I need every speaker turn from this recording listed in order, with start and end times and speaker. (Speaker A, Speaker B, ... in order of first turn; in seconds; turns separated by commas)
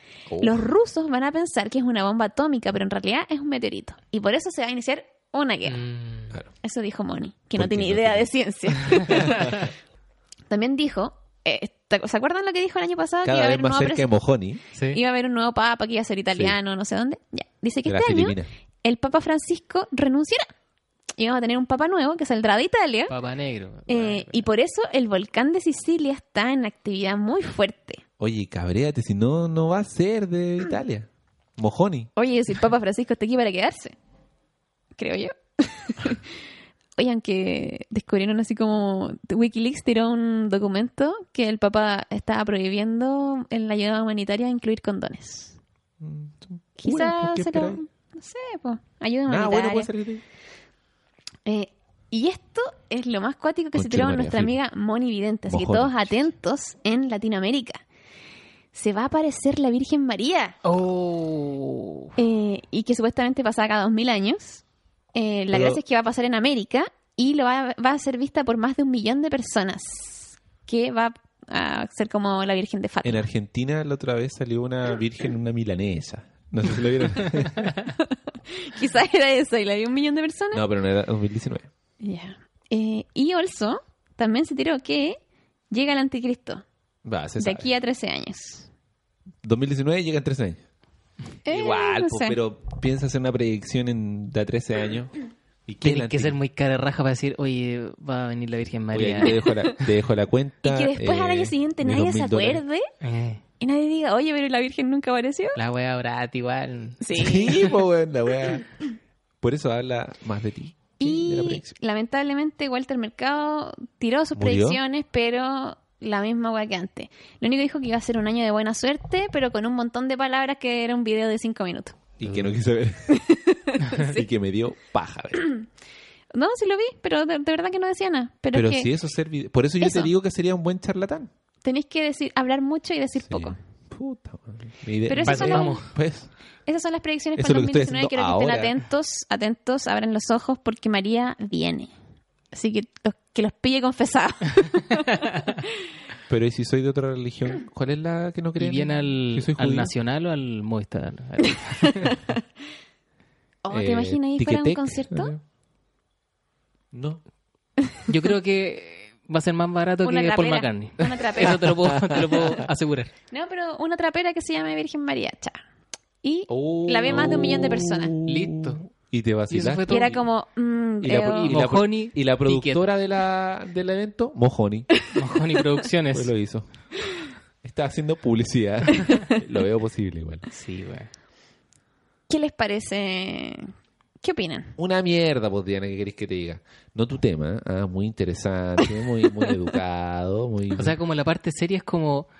Speaker A: 0.3-0.6, Speaker B: 0.4-5.8, Speaker C: 5.7-6.4, Speaker B: 6.6-9.7, Speaker A: 7.5-8.3, Speaker A: 8.8-9.3, Speaker B: 10.5-14.1, Speaker A: 13.2-14.6, Speaker C: 14.7-15.0, Speaker B: 14.9-20.5, Speaker A: 17.9-18.5, Speaker B: 21.2-23.1, Speaker C: 23.1-24.4, Speaker B: 23.9-28.0, Speaker A: 28.2-32.1, Speaker B: 32.1-33.9, Speaker B: 35.0-36.4, Speaker B: 37.0-45.6, Speaker A: 46.0-47.8, Speaker B: 46.8-49.9, Speaker A: 49.3-50.2, Speaker B: 51.5-57.8, Speaker A: 53.7-54.5, Speaker A: 55.5-56.3, Speaker B: 58.7-60.5, Speaker C: 60.6-62.1, Speaker B: 62.1-64.6, Speaker B: 65.1-73.3, Speaker A: 65.5-65.8, Speaker A: 73.0-77.8, Speaker B: 78.0-80.6, Speaker A: 80.5-81.7, Speaker B: 82.0-85.2, Speaker B: 85.7-86.6, Speaker A: 87.0-87.7, Speaker B: 87.4-88.7, Speaker A: 89.4-90.6, Speaker B: 91.5-92.4, Speaker A: 91.5-95.2, Speaker A: 95.7-96.3, Speaker C: 95.8-99.4, Speaker A: 98.9-102.6, Speaker B: 99.4-99.7, Speaker B: 100.6-102.9, Speaker C: 103.0-103.4, Speaker B: 103.6-105.5, Speaker C: 105.5-107.0, Speaker B: 107.0-107.7, Speaker A: 107.1-108.7, Speaker A: 109.4-111.7, Speaker B: 111.0-122.0, Speaker A: 114.3-114.8, Speaker A: 122.2-123.2, Speaker B: 123.1-124.2, Speaker A: 123.9-125.4, Speaker B: 125.4-125.6, Speaker B: 126.3-128.9, Speaker A: 128.5-131.3, Speaker B: 129.8-130.1, Speaker B: 131.6-133.6, Speaker A: 133.3-136.3, Speaker B: 135.1-135.8, Speaker C: 135.2-135.9, Speaker B: 136.7-141.9, Speaker A: 137.3-138.8, Speaker B: 142.5-145.7, Speaker A: 146.3-149.9, Speaker C: 148.6-152.2, Speaker B: 151.6-152.4, Speaker B: 153.6-155.3, Speaker A: 153.7-155.4, Speaker A: 156.9-157.2, Speaker C: 158.1-163.1, Speaker B: 160.0-161.7, Speaker A: 161.4-162.6, Speaker B: 163.3-165.6, Speaker B: 166.2-168.1, Speaker A: 166.5-170.2, Speaker C: 168.2-168.9, Speaker C: 169.5-170.2, Speaker B: 169.9-171.6, Speaker A: 171.0-174.9, Speaker C: 171.3-172.8, Speaker C: 175.1-176.3, Speaker A: 176.1-176.7, Speaker A: 177.6-180.4, Speaker C: 180.5-181.1, Speaker B: 182.3-184.8, Speaker A: 184.8-191.0, Speaker C: 190.7-192.3